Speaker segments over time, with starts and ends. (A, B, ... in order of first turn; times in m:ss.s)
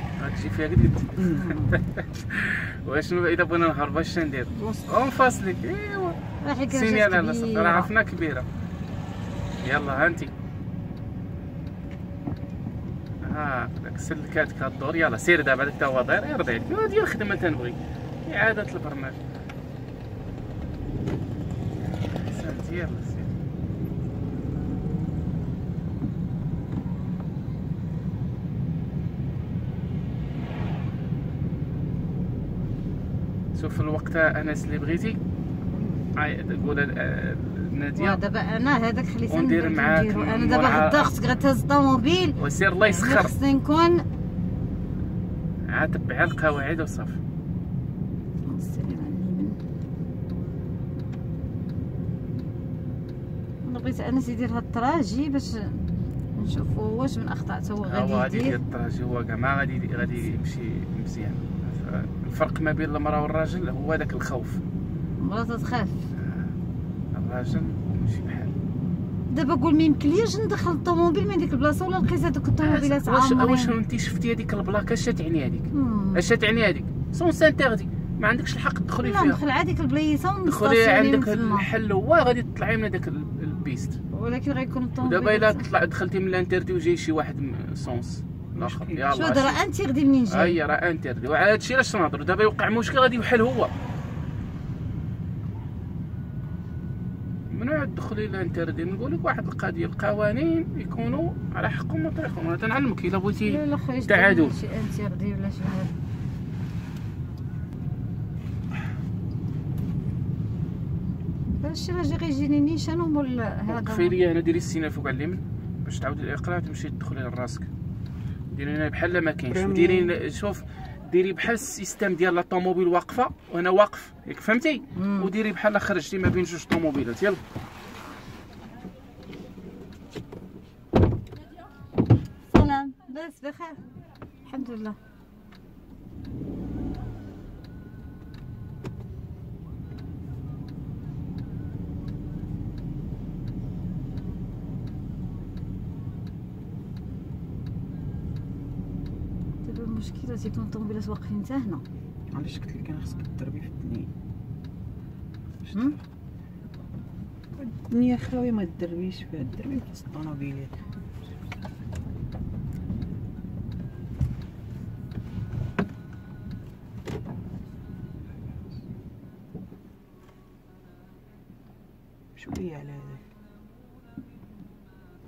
0:00.2-0:06.2 A
0:01.2-0:01.5 B
0:01.3-0:01.8 C
0:04.5-0:04.9 B
0:06.4-0:07.9 C
0:06.7-0:08.4 A
0:09.6-0:10.3 A
0:13.2-0:19.2 A
0:22.1-0:23.3 A
0:33.5-0:35.2 A
0:35.7-0:36.0 B
0:36.1-0:38.2 A
0:38.0-0:44.0 C
0:39.3-0:41.1 A
0:42.4-0:43.3 A
0:45.7-0:47.2 A
0:48.4-0:49.6 C
0:53.6-0:55.8 C
0:56.4-0:58.6 C
0:57.9-1:04.6 A
1:05.2-1:06.0 C
1:06.2-1:06.5 A
1:07.1-1:08.5 A
1:09.3-1:13.7 C
1:12.6-1:19.4 A
1:15.7-1:16.2 C
1:19.0-1:21.7 C
1:20.4-1:24.0 A
1:24.1-1:25.6 C
1:25.0-1:29.6 A
1:28.6-1:29.1 B
1:29.1-1:30.6 C
1:30.3-1:33.7 A
1:37.5-1:44.5 A
1:43.4-1:45.9 C
1:51.6-1:54.2 C
1:53.7-1:57.7 A
1:58.5-2:07.4 A
1:59.5-2:00.2 B
2:05.0-2:05.3 C
2:12.5-2:13.8 C
2:14.4-2:15.0 C
2:29.6-2:31.8 C
2:32.3-2:34.1 B
2:35.6-2:35.9 B
2:37.6-2:40.8 B
2:52.3-2:53.2 B